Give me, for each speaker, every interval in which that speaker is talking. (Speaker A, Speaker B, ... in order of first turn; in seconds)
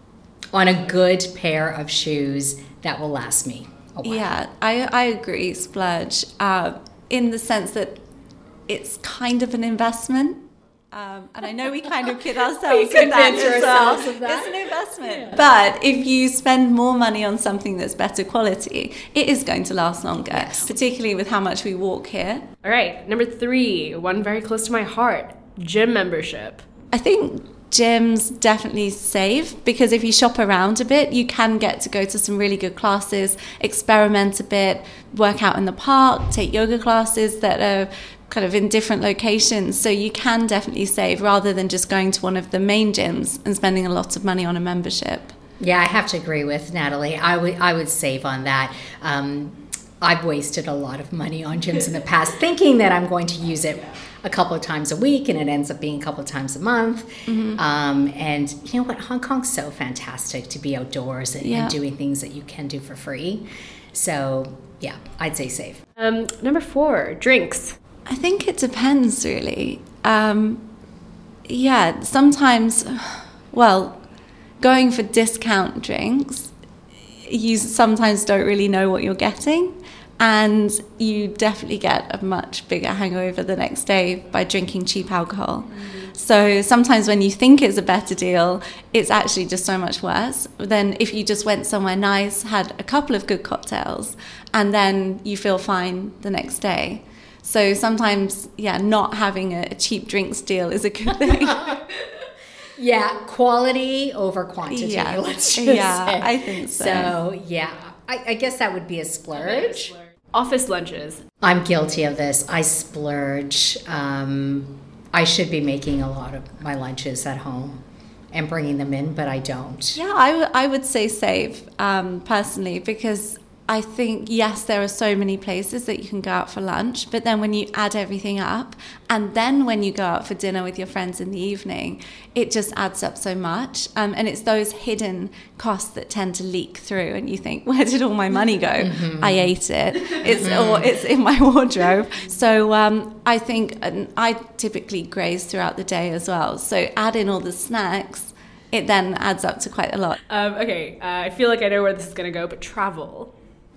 Speaker A: 0.5-4.3, 12.7-14.5, 20.3-20.7, 45.6-65.8, 101.3-101.8, 102.8-109.9, 111.4-120.0, 138.8-139.5, 140.1-140.9
Speaker B: 4.0-8.0, 8.7-22.4, 26.9-45.3, 57.3-57.6, 61.4-61.7, 68.0-70.6, 71.5-74.0, 74.6-76.5, 77.3-101.8, 104.7-107.1, 119.9-150.2
Speaker C: 12.9-14.0, 22.6-26.6, 66.0-67.8, 110.3-111.2, 150.3-153.3